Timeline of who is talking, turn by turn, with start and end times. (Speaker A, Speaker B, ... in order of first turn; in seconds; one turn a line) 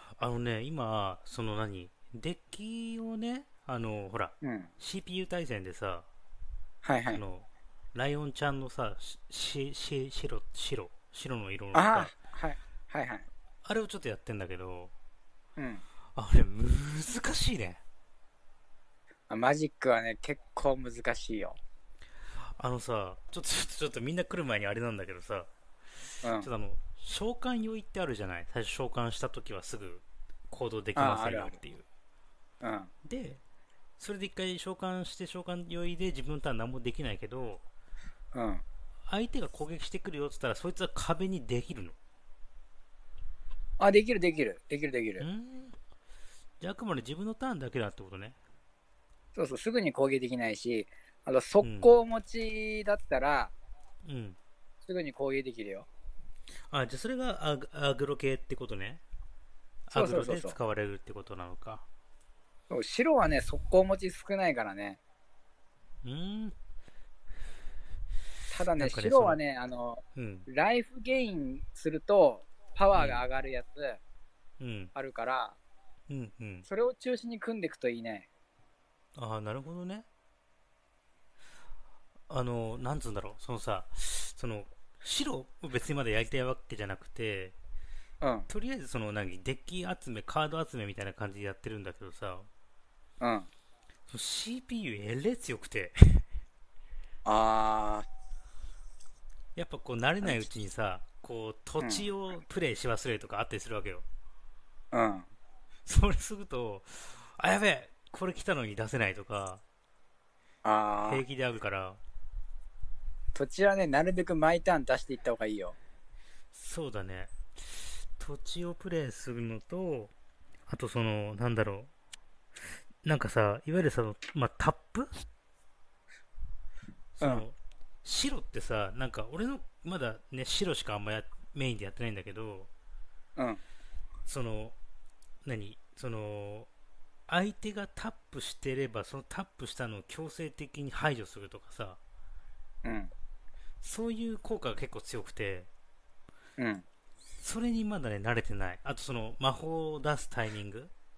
Speaker A: 0.2-6.1
Speaker B: 4.4-4.7
Speaker B: 6.8-7.2
Speaker A: 7.1-12.1
Speaker B: 11.7-13.3
Speaker A: 13.7-14.9
Speaker B: 15.6-15.8
Speaker A: 16.1-17.8
Speaker B: 19.3-21.6
Speaker A: 22.4-25.5
Speaker A: 26.2-31.9
Speaker B: 26.2-26.5
Speaker B: 31.0-31.6
Speaker B: 32.6-32.9
Speaker A: 33.0-33.4
Speaker A: 34.0-37.6
Speaker B: 38.3-38.6
Speaker A: 39.1-42.0
Speaker B: 43.8-45.3
Speaker A: 45.2-45.8
Speaker A: 46.6-48.4
Speaker B: 49.4-53.5
Speaker A: 51.6-52.0
Speaker A: 54.0-54.4
Speaker B: 54.9-55.9
Speaker A: 56.7-59.0
Speaker A: 59.9-61.9
Speaker B: 59.9-60.6
Speaker B: 62.7-65.0
Speaker A: 66.0-66.5
Speaker B: 68.5-74.0
Speaker A: 68.8-69.4
Speaker A: 70.2-70.5
Speaker A: 73.0-73.3
Speaker A: 74.6-74.9
Speaker B: 75.0-75.6
Speaker A: 76.1-76.7
Speaker B: 76.7-78.3
Speaker A: 79.2-80.1
Speaker A: 82.3-87.6
Speaker B: 88.2-88.5
Speaker A: 88.5-92.5
Speaker B: 93.2-93.5
Speaker A: 94.1-96.3
Speaker B: 97.2-98.1
Speaker A: 99.6-104.0
Speaker B: 101.8-102.1
Speaker B: 104.9-105.3
Speaker A: 105.8-109.6
Speaker B: 110.6-111.2
Speaker A: 111.0-112.0
Speaker B: 113.3-115.8
Speaker A: 116.5-120.1
Speaker A: 120.7-121.9
Speaker A: 123.0-125.2
Speaker A: 127.2-132.7
Speaker B: 127.2-127.5
Speaker A: 134.3-134.8
Speaker A: 135.4-136.7
Speaker A: 137.3-142.0
Speaker B: 142.8-143.1
Speaker A: 143.8-145.7
Speaker B: 146.6-146.8
Speaker A: 147.4-150.9